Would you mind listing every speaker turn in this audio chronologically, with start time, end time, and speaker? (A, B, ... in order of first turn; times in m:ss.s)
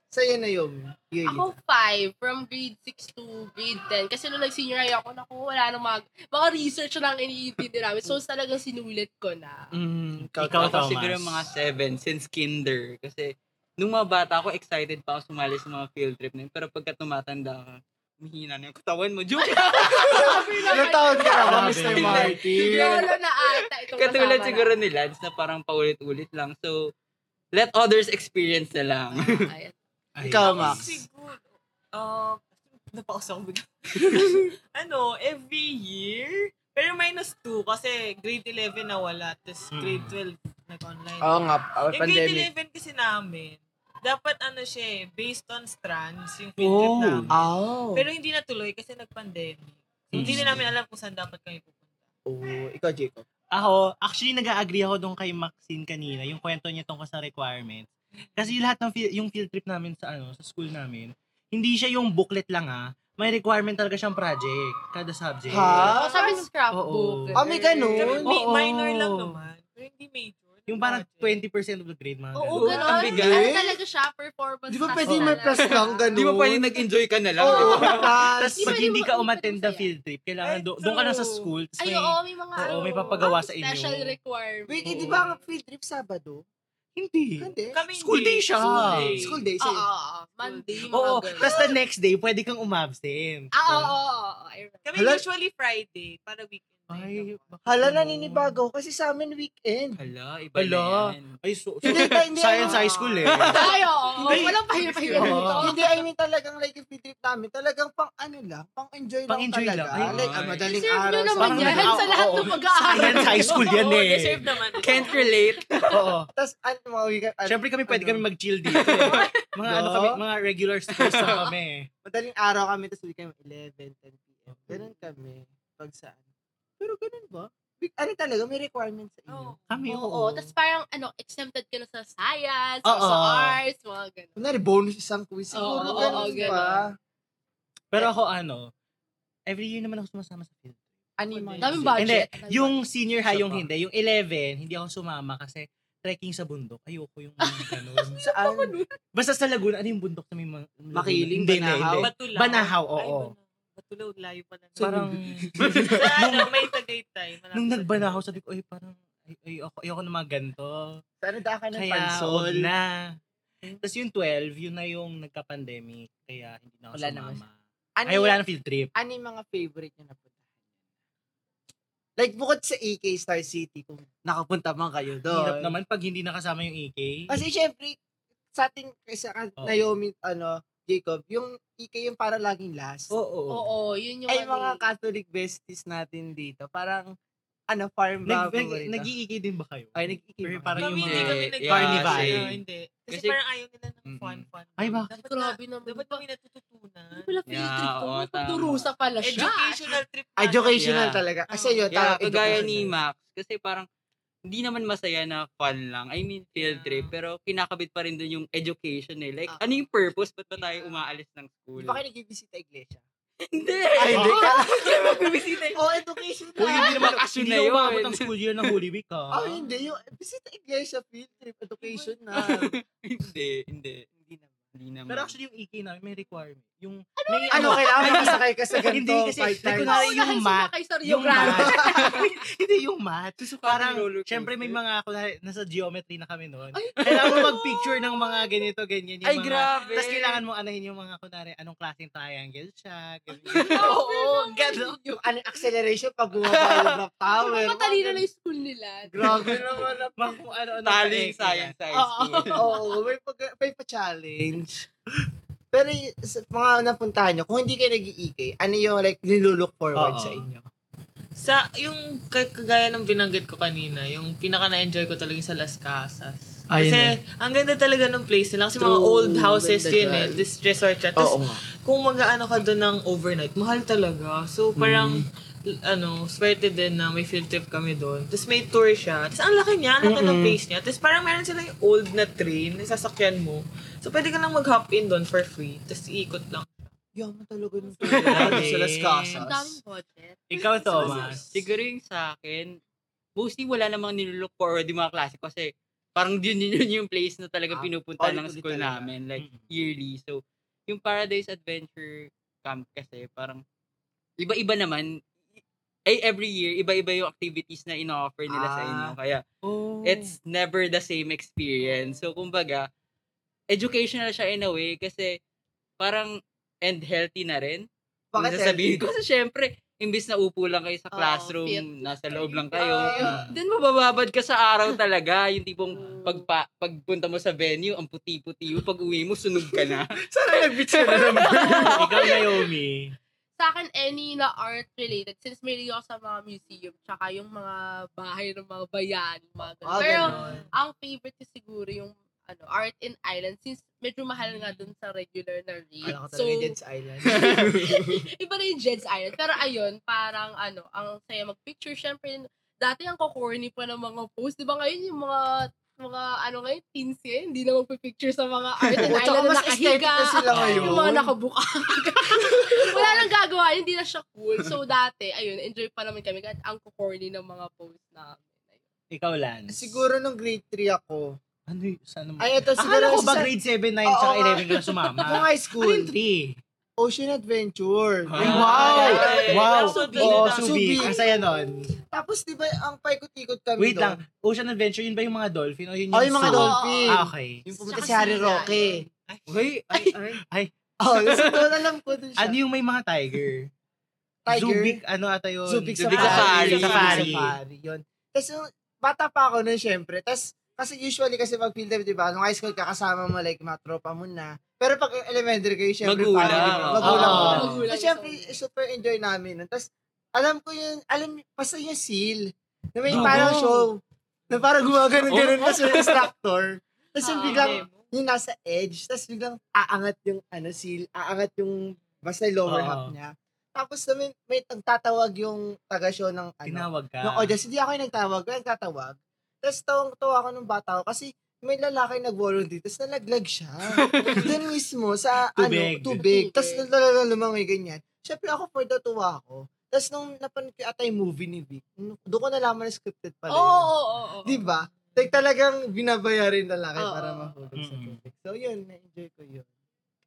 0:00.1-0:01.5 A
0:01.2-0:09.7 B
0:09.7-0:10.8 A
0:10.2-0:11.4 C
0:10.4-0:26.8 D
0:19.6-0:24.8 B
0:20.2-0:23.1 A
0:21.4-0:22.4 C
0:27.5-0:29.5 D
0:29.1-0:29.7 B
0:30.2-0:30.8 C
0:30.2-0:30.9 A
0:30.4-0:52.0 E
0:34.0-0:34.5 A
0:39.7-0:40.2 C
0:41.2-0:42.5 A
0:46.6-0:47.3 C
0:47.3-0:48.0 A
0:50.1-0:50.7 C
0:52.2-0:53.2 A
0:53.5-1:05.9 C
1:05.5-1:06.3 A
1:05.6-1:06.4 E
1:05.8-1:08.2 B
1:06.7-1:07.5 C
1:07.4-1:08.3 A
1:07.5-1:11.4 E
1:08.2-1:09.3 C
1:10.7-1:13.3 C
1:12.3-1:16.1 B
1:12.6-1:13.5 D
1:13.1-1:13.8 A
1:14.7-1:16.8 A
1:15.1-1:15.7 C
1:16.1-1:18.1 D
1:17.4-1:18.8 A
1:17.4-1:19.9 B
1:17.7-1:24.2 C
1:20.4-1:21.5 E
1:21.8-1:25.3 B
1:22.8-1:23.2 E
1:24.7-1:26.4 A
1:24.8-1:25.2 C
1:27.0-1:29.1 C
1:27.4-1:27.8 A
1:27.7-1:29.4 E
1:28.8-1:29.3 D
1:29.1-1:29.8 A
1:29.6-1:31.6 B
1:30.4-1:30.9 E
1:30.9-1:33.9 C
1:33.5-1:34.8 B
1:34.8-1:37.4 E
1:35.0-1:35.2 A
1:36.9-1:38.6 C
1:37.6-1:40.0 A
1:40.0-1:41.4 D
1:40.6-1:43.6 C
1:41.9-1:43.6 A
1:43.2-1:43.8 D
1:43.5-1:46.0 B
1:44.2-1:52.4 A
1:45.2-1:45.7 C
1:49.3-1:50.6 C
1:50.0-1:50.7 D
1:50.6-1:53.7 B
1:51.3-1:54.4 C
1:53.2-1:55.4 E
1:54.8-1:56.0 D
1:54.9-1:55.2 B
1:55.9-1:56.3 C
1:56.3-1:58.2 A
1:57.4-2:01.9 C
1:58.8-1:59.2 D
1:59.0-1:59.4 B
1:59.6-2:00.2 A
2:01.0-2:01.4 D
2:02.0-2:06.2 A
2:04.5-2:04.9 C
2:06.8-2:09.6 A
2:09.3-2:09.8 E
2:09.7-2:10.5 C
2:09.9-2:14.4 B
2:12.8-2:13.6 C
2:14.4-2:16.9 A
2:15.5-2:16.8 B
2:15.9-2:16.4 C
2:17.9-2:18.7 C
2:19.5-2:20.8 C
2:21.2-2:22.2 A
2:21.3-2:21.8 E
2:21.6-2:22.8 B
2:22.0-2:28.2 C
2:23.2-2:23.7 A
2:28.1-2:28.9 B
2:28.2-2:28.7 A
2:29.1-2:33.3 C
2:30.9-2:32.1 A
2:32.0-2:35.1 E
2:34.8-2:36.0 A
2:34.8-2:36.5 C
2:35.9-2:38.4 E
2:37.5-2:40.8 C
2:41.2-2:42.7 A
2:41.7-2:43.1 C
2:43.8-2:47.5 C
2:46.9-2:47.4 A
2:48.0-2:48.4 A
2:48.0-2:48.9 C
2:48.9-2:50.3 A
2:52.2-2:55.7 A
2:55.3-2:57.4 C
2:57.3-2:58.0 A
2:58.5-3:03.1 A
2:59.6-2:59.8 C
3:03.1-3:03.6 C
3:03.5-3:04.8 B
3:04.3-3:07.1 A
3:07.7-3:09.1 A
3:08.2-3:12.6 C
3:09.9-3:11.2 A
3:10.8-3:17.3 E
3:10.8-3:12.5 D
3:13.1-3:13.4 D
3:14.0-3:14.4 D
3:14.8-3:15.1 C
3:15.2-3:16.2 B
3:17.1-3:19.9 B
3:17.5-3:18.9 D
3:19.2-3:20.9 E
3:20.4-3:22.9 A
3:20.8-3:21.2 D
3:21.5-3:22.6 E
3:21.9-3:23.9 D
3:24.5-3:32.0 D
3:26.6-3:27.1 E
3:30.6-3:31.0 E
3:31.8-3:33.0 A
3:33.4-3:36.0 D
3:34.0-3:34.9 A
3:34.1-3:34.4 C
3:35.7-3:37.2 A
3:36.6-3:39.6 C
3:36.6-3:38.7 D
3:39.3-3:42.7 A
3:41.8-3:42.1 E
3:42.3-3:44.1 D
3:44.1-3:44.6 A
3:44.7-3:45.3 D
3:45.1-4:04.0 C
3:47.3-3:48.3 B
3:47.5-3:50.1 A
3:49.8-3:52.2 B
3:51.3-3:51.9 A
3:53.4-3:54.8 D
3:56.8-3:57.6 A
3:59.2-4:00.4 D
3:59.8-4:00.1 E
4:03.5-4:05.2 B
4:03.7-4:08.2 A
4:06.4-4:07.0 D
4:07.3-4:09.5 B
4:09.1-4:10.4 A
4:10.2-4:11.7 C
4:10.8-4:12.6 D
4:11.9-4:13.0 B
4:12.5-4:14.8 A
4:15.7-4:20.7 A
4:19.9-4:20.5 C
4:21.4-4:35.2 E
4:26.8-4:27.0 C
4:28.8-4:30.4 A
4:31.2-4:31.6 A
4:34.8-4:35.2 A
4:35.8-4:46.9 E
4:40.0-4:40.6 A
4:47.2-4:49.8 A
4:48.0-4:48.7 D
4:48.3-4:49.4 C
4:49.3-4:51.4 B
4:50.5-4:51.4 C
4:51.0-4:51.4 A
4:51.5-4:52.8 D
4:53.4-5:03.6 D
4:57.7-4:59.1 A
4:59.4-4:59.7 C
5:04.4-5:05.1 D
5:05.6-5:09.4 D
5:08.5-5:09.1 A
5:09.6-5:10.4 C
5:10.0-5:12.9 D
5:13.7-5:15.3 D
5:16.0-5:16.3 D
5:16.8-5:30.1 D
5:18.3-5:19.1 A
5:21.1-5:23.6 B
5:22.7-5:23.5 A
5:23.2-5:23.5 C
5:25.9-5:26.4 B
5:29.6-5:32.0 A
5:30.6-5:32.3 D
5:31.6-5:32.0 B
5:31.9-5:33.1 C
5:33.6-5:46.7 B
5:39.8-5:40.6 A
5:40.0-5:40.7 E
5:44.4-5:44.9 E
5:46.0-5:48.2 A
5:47.3-6:08.8 B
5:47.3-5:47.7 D
5:58.9-5:59.1 D
5:59.0-6:01.3 A
6:00.5-6:01.0 C
6:02.4-6:03.3 A
6:09.1-6:10.1 C
6:09.7-6:11.4 A
6:11.7-6:16.6 C
6:12.4-6:13.5 A
6:14.0-6:14.6 A
6:14.6-6:15.2 B
6:15.2-6:16.1 A
6:17.0-6:19.4 A
6:18.3-6:19.9 D
6:18.4-6:21.9 C
6:18.4-6:21.1 E
6:19.8-6:20.2 B
6:20.1-6:21.4 A
6:22.0-6:24.2 A
6:23.8-6:27.6 C
6:26.1-6:29.0 A
6:26.4-6:27.2 B
6:27.8-6:29.0 B
6:28.0-6:29.6 E
6:29.5-6:30.2 D
6:30.2-6:30.7 C
6:31.0-6:32.6 A
6:31.1-6:31.7 D
6:32.4-6:33.7 C
6:34.4-6:35.0 A
6:34.5-6:37.6 C
6:35.7-7:23.9 A
6:36.0-6:37.4 D
6:36.1-6:37.2 E
6:46.0-6:47.7 D
6:46.4-6:47.8 C
6:47.0-6:48.6 B
6:53.1-6:53.6 C
6:53.1-6:53.7 D
6:55.3-6:56.3 D
6:57.2-6:57.8 B
6:57.4-6:58.1 E
7:02.6-7:03.1 C
7:06.6-7:07.5 C
7:15.6-7:16.2 C
7:16.2-7:16.8 B
7:23.5-7:24.6 B
7:24.4-7:29.7 A
7:25.1-7:25.4 E
7:27.0-7:27.5 B
7:27.8-7:28.2 C